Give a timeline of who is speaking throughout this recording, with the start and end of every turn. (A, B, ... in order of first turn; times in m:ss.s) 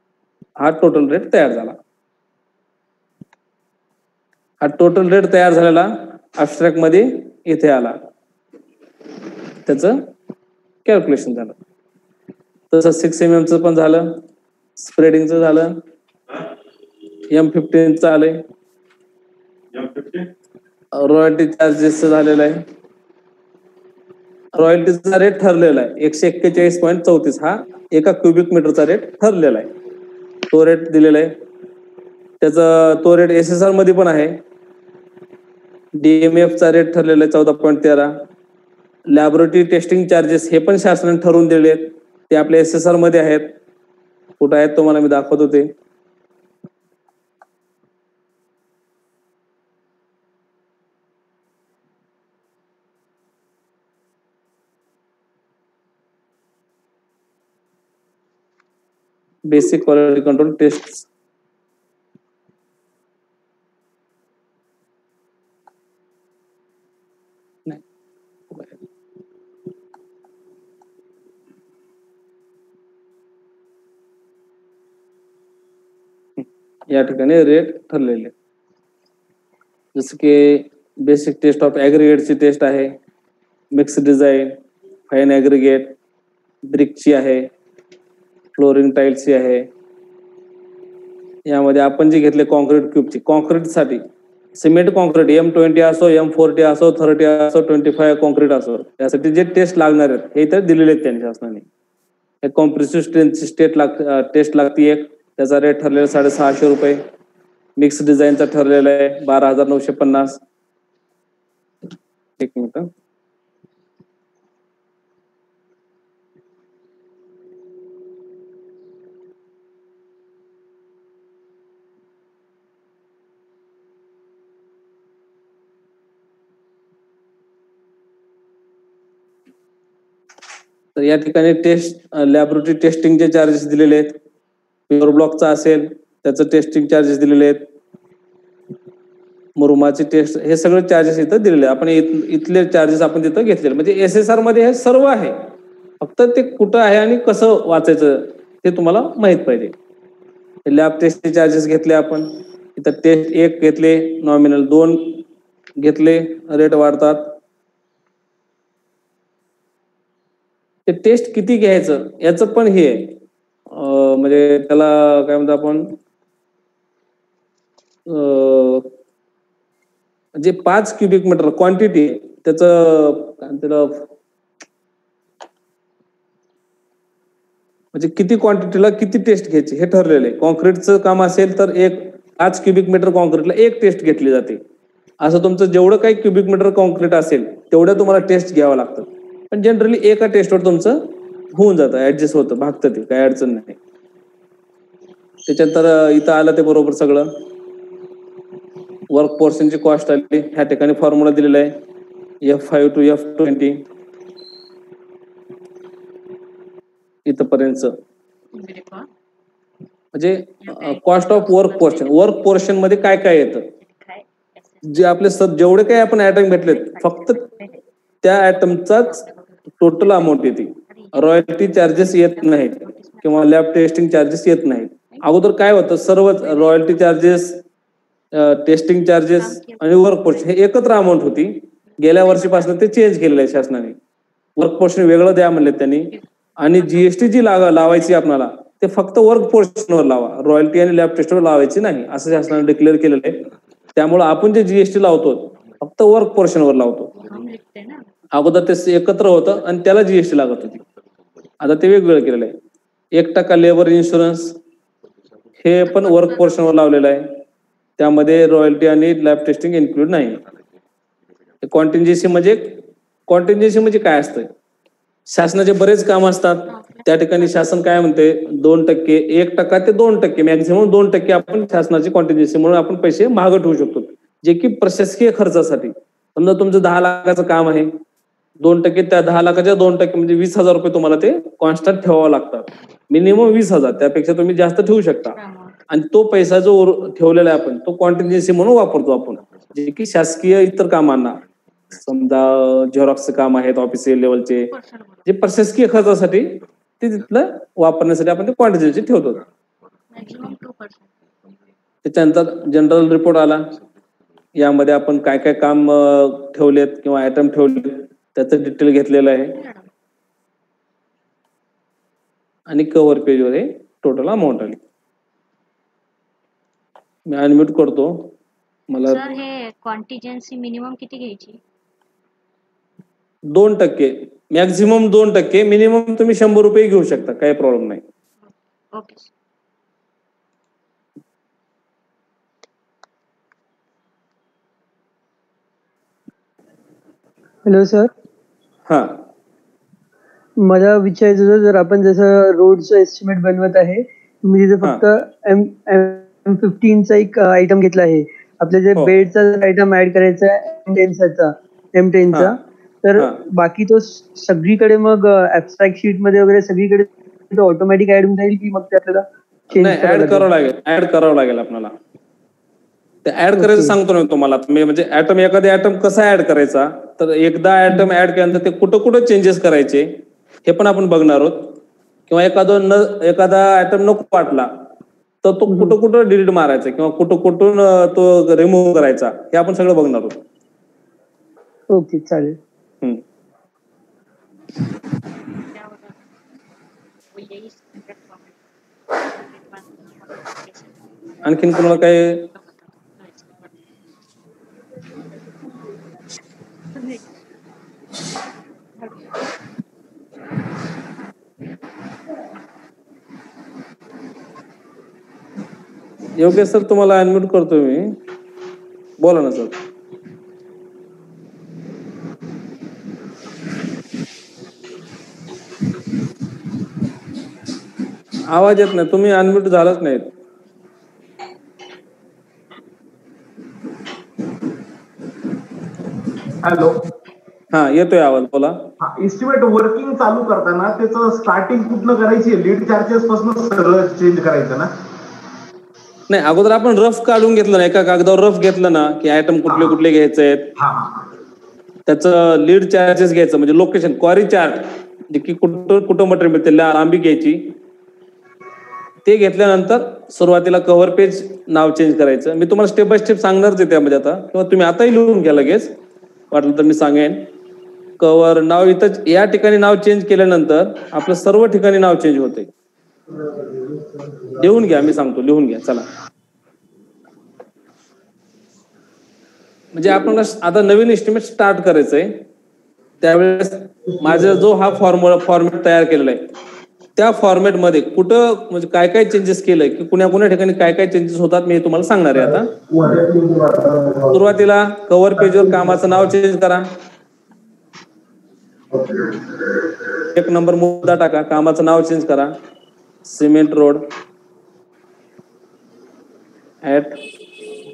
0:00.6-0:01.8 A
0:04.6-0:08.0 A
0:09.6-0:10.1 A
0:10.8-0:11.6 A
0:12.7-0:14.2 A
0:14.8-0:15.8 A
0:17.3-0:18.4 A
0:19.8-0:20.2 A
0:20.9-0:22.6 A
0:24.6-0:29.7 A
0:30.5-0:31.4 A
0:32.4-0:34.4 A
0:36.0-0:38.2 A
0:39.1-0:43.6 A
0:44.4-0:45.7 A
0:59.5-1:01.1 A
1:16.4-1:18.3 A
1:19.9-1:23.0 A
1:23.7-1:24.6 A
1:25.1-1:26.0 A
1:26.7-1:27.5 A
1:28.6-1:29.7 A
1:31.5-1:34.0 A
1:34.6-1:41.7 A
1:42.4-1:47.0 A
1:47.8-1:50.4 A
1:52.4-1:52.9 A
2:11.0-2:14.2 A
2:14.9-2:17.7 A
2:19.6-2:25.4 A
2:26.0-2:29.7 A
2:30.7-2:35.2 A
2:35.8-2:37.4 A
2:40.9-2:43.2 A
2:43.7-2:46.0 A
2:48.1-2:48.9 A
2:50.4-2:54.1 A
2:57.9-3:04.6 A
3:05.2-3:13.8 A
3:15.5-3:17.4 A
3:19.1-3:21.8 A
3:22.4-3:23.8 A
3:27.3-3:28.0 A
3:28.5-3:29.1 B
3:30.1-3:33.7 A
3:30.6-3:32.4 B
3:33.8-3:35.1 B
3:34.8-3:37.4 A
3:36.6-3:37.8 B
3:38.2-3:39.2 A
3:38.7-3:40.1 B
3:39.8-3:47.6 A
3:40.8-3:43.5 B
3:46.4-3:47.1 B
3:48.3-3:54.0 A
3:49.4-3:50.6 B
3:51.9-3:52.8 B
3:54.6-4:07.1 A
3:56.1-3:57.2 B
4:07.2-4:08.1 B
4:08.3-4:10.8 A
4:11.6-4:12.6 A
4:13.1-4:14.6 A
4:15.6-4:17.4 A
4:15.9-4:16.7 B
4:18.0-4:20.4 A
4:21.6-4:24.5 A
4:25.3-4:38.0 A
4:26.7-4:27.6 B
4:38.6-4:45.4 A
4:45.4-4:45.8 B
4:45.9-4:51.4 A
4:51.9-4:54.7 A
4:54.7-4:55.3 B
4:55.3-4:59.4 A
5:00.1-5:01.1 B
5:02.0-5:03.7 A
5:04.6-5:09.6 A
5:09.6-5:09.9 B
5:12.7-5:14.8 A
5:17.3-5:18.3 A
5:18.9-5:19.2 A
5:19.1-5:21.6 B
5:23.5-5:28.0 A
5:28.9-5:29.3 B
5:37.6-5:38.1 C
5:38.9-5:39.2 A
5:40.6-6:00.5 C
5:53.2-5:53.4 A
5:59.7-6:02.0 A
6:03.2-6:10.1 A
6:03.6-6:04.0 C
6:10.7-6:11.7 A
6:12.3-6:14.7 A
6:15.4-6:20.4 A
6:21.9-6:22.6 C
6:25.7-6:26.3 B
6:27.3-6:28.6 B
6:29.1-6:31.0 B
6:31.4-6:32.5 A
6:32.4-6:33.7 B
6:37.0-6:37.2 B
6:39.0-6:39.3 B
6:46.4-6:48.2 A
6:49.2-6:49.7 A
6:58.5-7:00.3 A
7:06.6-7:07.0 D
7:07.7-7:08.9 A
7:09.0-7:14.9 D
7:16.3-7:20.7 A
7:19.7-7:20.0 D
7:20.8-7:21.3 D
7:22.1-7:27.8 A
7:29.2-7:36.0 A
7:36.5-7:37.5 A
7:38.2-7:42.7 A
7:44.6-7:46.1 A
7:49.9-7:52.4 A
7:53.2-7:56.5 A
7:57.2-8:02.7 A
8:02.4-8:04.5 D
8:04.3-8:06.9 A
8:05.5-8:06.2 D
8:08.9-8:09.7 D
8:10.3-8:12.5 A
8:13.2-8:14.1 A
8:16.8-8:17.2 A